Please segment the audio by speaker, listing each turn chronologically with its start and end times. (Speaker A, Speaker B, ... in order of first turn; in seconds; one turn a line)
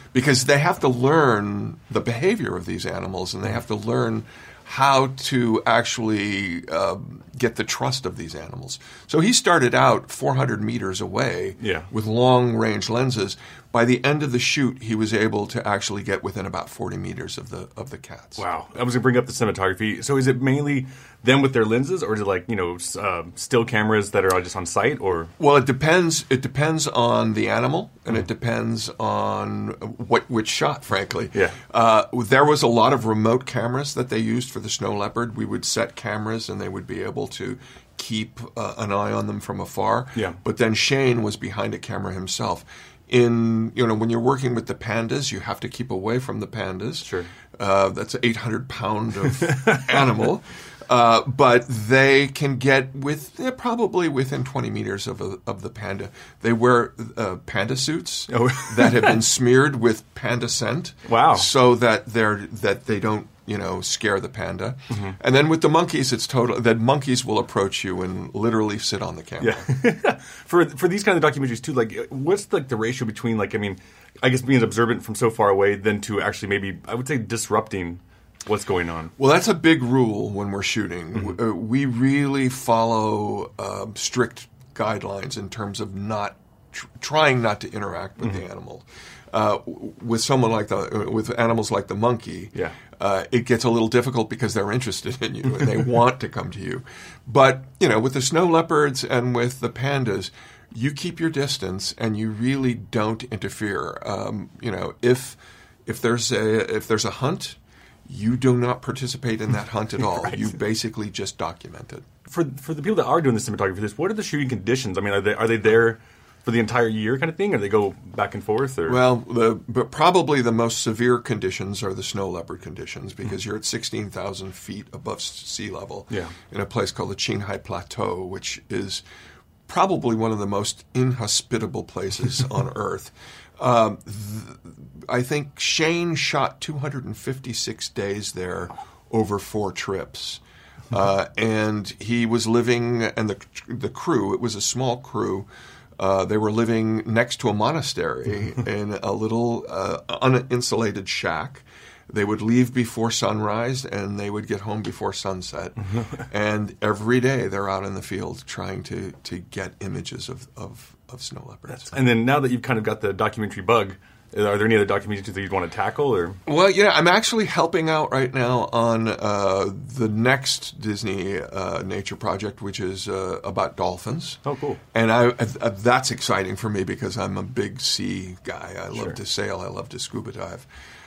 Speaker A: 0.1-18.4
Speaker B: 11.6-11.9
Speaker B: 18.4-25.3
Speaker A: 25.4-69.6
Speaker B: 40.1-40.4
Speaker B: 47.0-47.3
Speaker B: 49.5-50.0
Speaker B: 58.3-59.2
Speaker B: 61.0-61.5
Speaker B: 69.4-79.1
Speaker A: 79.2-112.0
Speaker B: 110.2-110.5
Speaker B: 112.3-119.0
Speaker A: 118.9-129.0
Speaker A: 129.7-140.4
Speaker A: 140.9-145.5
Speaker A: 146.0-161.9
Speaker B: 161.7-166.4
Speaker A: 166.4-174.4
Speaker B: 174.4-174.8
Speaker A: 174.9-180.7
Speaker B: 178.9-179.2